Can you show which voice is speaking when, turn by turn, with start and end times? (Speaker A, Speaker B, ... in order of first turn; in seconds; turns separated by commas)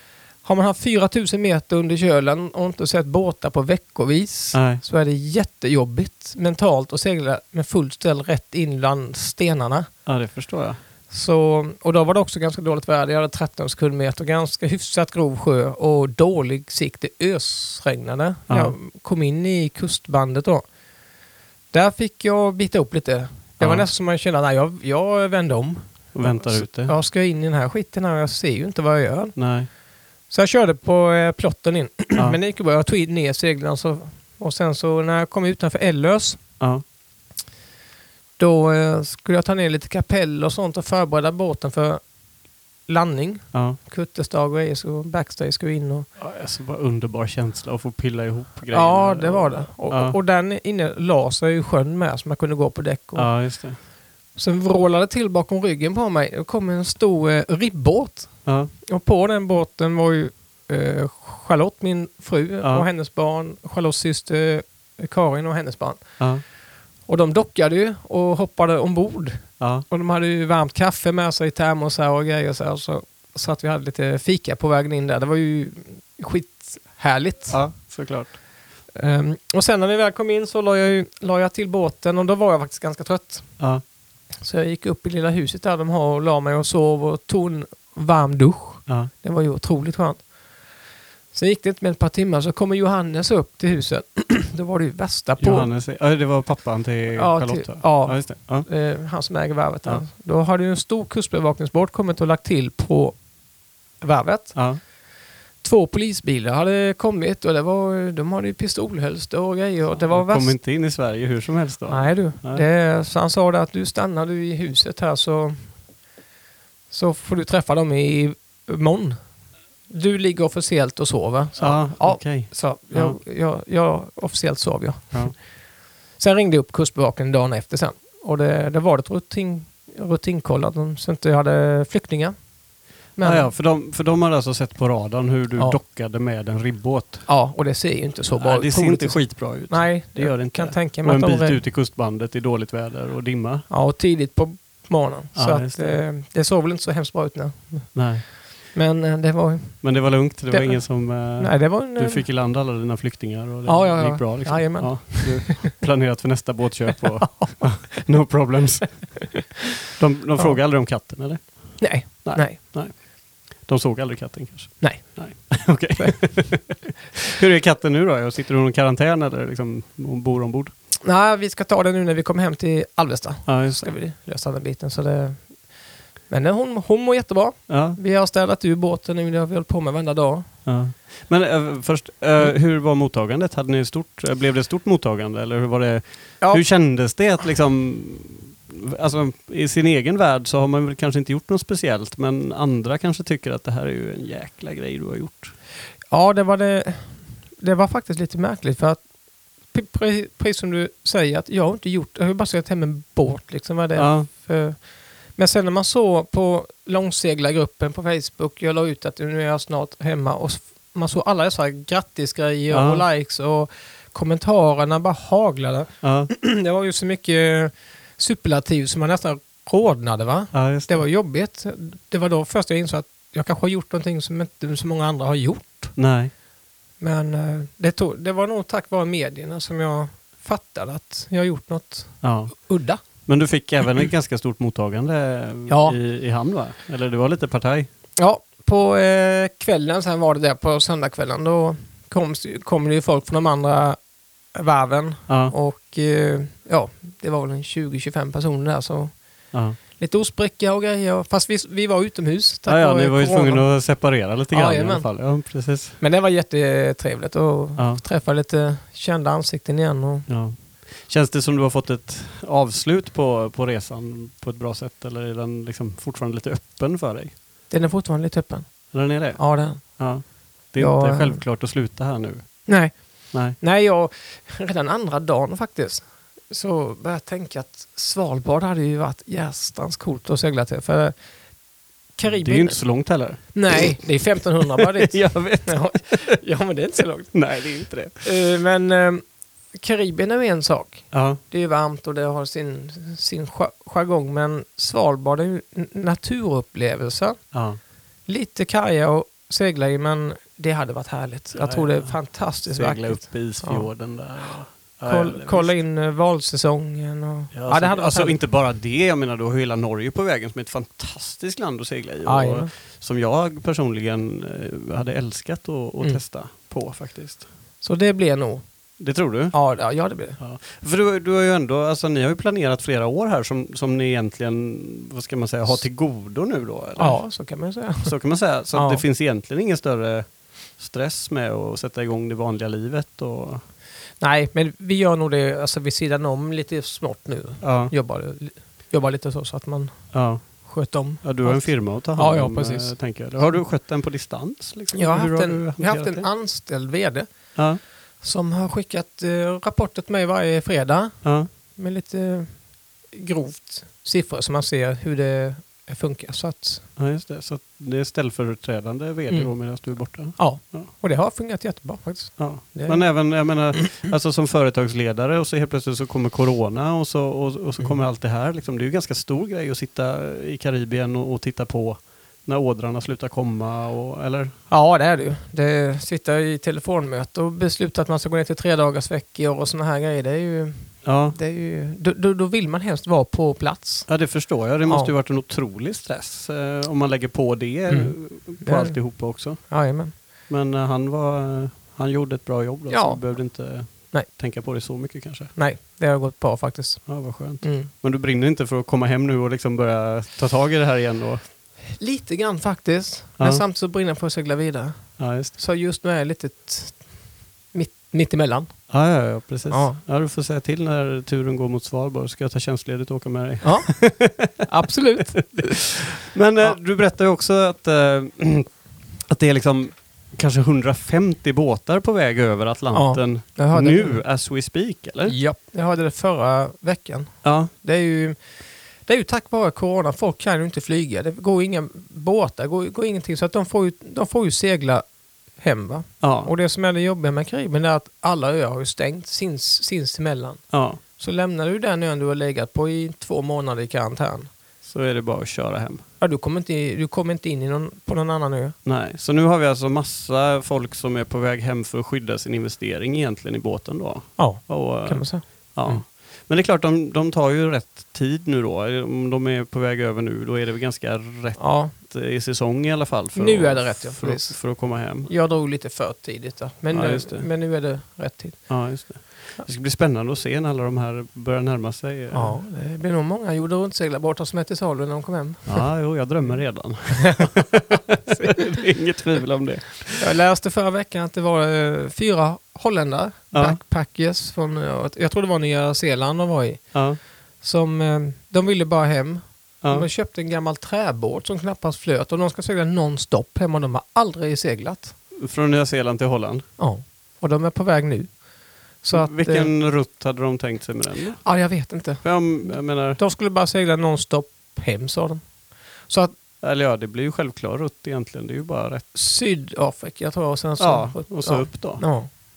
Speaker A: 0.4-9.9, Speaker B: 4.5-4.8, Speaker B: 10.1-10.8, Speaker A: 11.1-20.6, Speaker B: 18.5-18.8, Speaker A: 21.7-29.3, Speaker B: 23.6-23.9, Speaker B: 26.1-26.9, Speaker B: 29.4-29.7, Speaker A: 30.3-36.4, Speaker A: 38.4-42.0, Speaker A: 42.9-46.1, Speaker B: 43.5-43.8, Speaker B: 46.2-50.2, Speaker A: 48.7-53.3, Speaker B: 53.1-53.8, Speaker A: 54.3-66.0, Speaker B: 58.4-58.7, Speaker A: 67.1-77.6, Speaker B: 69.6-69.8, Speaker B: 77.5-78.4, Speaker A: 78.9-83.6, Speaker A: 84.4-90.2, Speaker A: 91.3-95.7, Speaker B: 95.4-98.7, Speaker A: 97.1-103.2, Speaker A: 104.0-104.9, Speaker B: 104.5-104.8, Speaker A: 105.6-110.5, Speaker B: 110.0-112.6, Speaker A: 111.9-115.7, Speaker A: 116.9-119.2, Speaker A: 119.9-125.4, Speaker B: 121.6-123.2, Speaker A: 126.2-132.3, Speaker A: 133.1-133.5, Speaker B: 133.2-137.3, Speaker A: 137.3-141.6, Speaker B: 138.3-143.7, Speaker A: 143.7-152.2, Speaker B: 145.3-146.0, Speaker B: 147.9-148.2, Speaker B: 149.8-159.3, Speaker A: 153.7-155.8, Speaker A: 157.3-158.0, Speaker B: 159.9-170.7, Speaker A: 161.8-162.6, Speaker A: 164.8-166.3, Speaker A: 171.0-175.5, Speaker B: 173.4-173.8, Speaker A: 176.3-180.5, Speaker B: 177.7-178.0, Speaker B: 180.7-195.5, Speaker A: 196.1-199.0, Speaker A: 199.7-204.8, Speaker B: 203.9-204.3, Speaker A: 205.3-225.9, Speaker B: 212.7-213.0, Speaker B: 216.0-216.3, Speaker B: 220.5-221.0, Speaker B: 225.9-226.3, Speaker A: 227.0-233.0, Speaker B: 232.2-232.6, Speaker B: 233.2-237.9, Speaker A: 235.7-235.9, Speaker A: 238.2-244.0, Speaker A: 244.5-249.1, Speaker B: 245.3-245.5, Speaker B: 249.5-249.8, Speaker A: 249.8-253.7, Speaker B: 252.7-256.0, Speaker A: 254.5-255.1, Speaker A: 256.0-260.3, Speaker B: 257.8-258.0, Speaker B: 260.3-267.3, Speaker A: 267.7-270.0, Speaker B: 268.9-272.7, Speaker A: 270.8-271.4, Speaker A: 272.7-281.1, Speaker A: 282.1-282.8, Speaker B: 282.2-284.0, Speaker A: 283.4-287.5, Speaker B: 284.6-286.4, Speaker B: 287.3-288.2, Speaker A: 288.1-297.4, Speaker B: 291.1-291.4, Speaker B: 297.5-297.8, Speaker A: 298.3-303.9, Speaker B: 301.5-305.8, Speaker A: 305.0-308.4, Speaker B: 307.5-317.4, Speaker A: 312.2-312.7, Speaker A: 317.8-318.6, Speaker B: 319.0-319.6, Speaker A: 319.5-320.4, Speaker B: 320.4-327.2, Speaker A: 327.0-328.1, Speaker B: 328.0-333.6, Speaker A: 328.7-329.0, Speaker A: 334.2-343.6, Speaker B: 337.6-337.9, Speaker B: 340.1-346.3, Speaker A: 344.9-347.5, Speaker B: 347.5-347.8, Speaker A: 348.2-356.9, Speaker B: 351.2-351.5, Speaker B: 357.0-360.9, Speaker A: 359.3-363.9, Speaker B: 362.4-374.5, Speaker A: 374.7-384.1, Speaker B: 381.0-381.4, Speaker B: 384.1-389.8, Speaker A: 384.8-385.1, Speaker A: 387.9-390.1, Speaker B: 390.5-395.5, Speaker A: 392.9-394.3, Speaker A: 395.5-397.9, Speaker B: 397.1-401.4, Speaker A: 402.0-407.2, Speaker B: 405.2-405.6, Speaker A: 407.7-408.8, Speaker B: 408.9-414.6, Speaker A: 409.7-410.0, Speaker A: 413.6-416.1, Speaker B: 415.6-418.7, Speaker B: 419.3-425.4, Speaker A: 422.9-424.2, Speaker A: 425.3-428.4, Speaker B: 427.4-427.7, Speaker A: 429.0-435.0, Speaker A: 435.6-440.6, Speaker B: 436.2-436.5, Speaker B: 440.7-441.0, Speaker A: 441.2-444.5, Speaker B: 444.8-446.0, Speaker A: 446.2-448.8, Speaker B: 448.8-465.3, Speaker A: 454.4-456.0, Speaker A: 461.6-461.9, Speaker A: 463.3-468.8, Speaker B: 466.9-467.5, Speaker B: 468.7-472.6, Speaker A: 472.3-475.9, Speaker B: 475.6-480.2, Speaker A: 480.1-487.0, Speaker B: 483.5-483.8, Speaker B: 486.9-487.2, Speaker A: 487.6-495.1, Speaker B: 495.4-496.6, Speaker A: 496.8-498.4, Speaker A: 499.0-499.7, Speaker B: 499.1-501.5, Speaker A: 501.4-505.5, Speaker B: 502.2-503.2, Speaker A: 506.0-506.4, Speaker B: 506.6-509.1, Speaker A: 509.1-512.3, Speaker B: 510.8-512.0